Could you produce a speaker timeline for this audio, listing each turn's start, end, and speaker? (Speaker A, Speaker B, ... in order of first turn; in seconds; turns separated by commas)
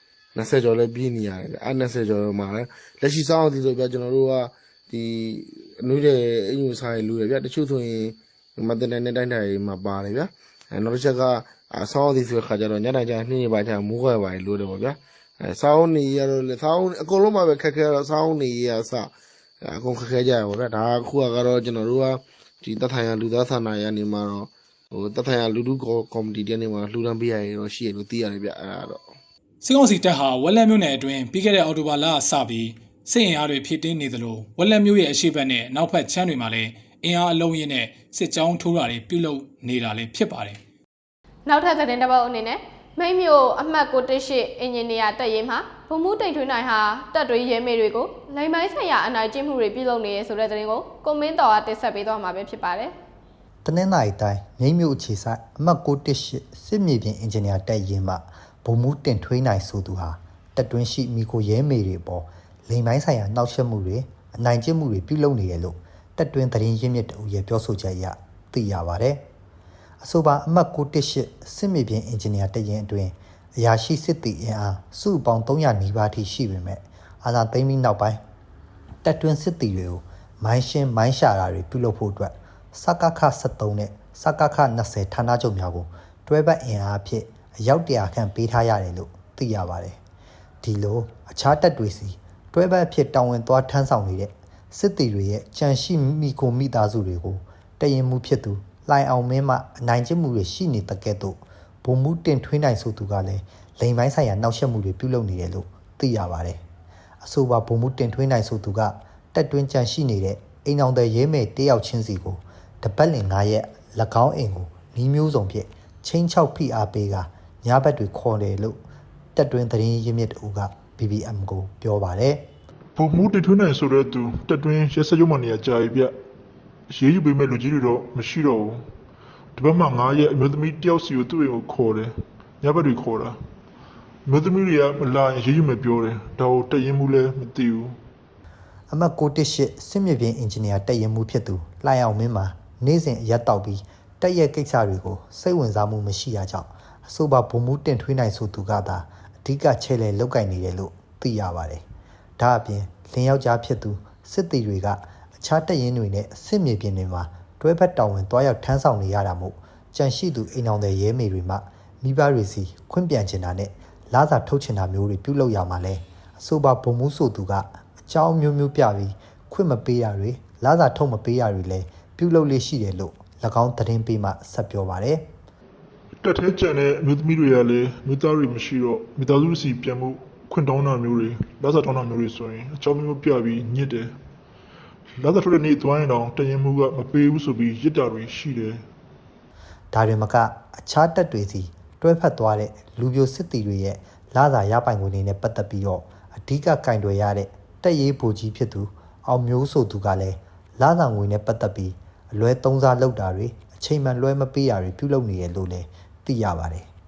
Speaker A: 0.3-29.0, Speaker B: 29.6-40.6, Speaker C: 41.5-52.9, Speaker D: 53.6-69.2, Speaker D: 70.0-78.2, Speaker D: 79.0-90.0, Speaker D: 90.6-106.6, Speaker D: 107.2-118.8, Speaker D: 119.3-122.5, Speaker E: 123.0-126.1, Speaker E: 126.9-128.8, Speaker E: 129.6-132.1, Speaker E: 132.6-133.3, Speaker E: 134.3-137.9, Speaker D: 138.9-151.8, Speaker D: 152.4-175.3, Speaker E: 176.2-184.1, Speaker E: 185.2-188.8, Speaker D: 189.9-206.9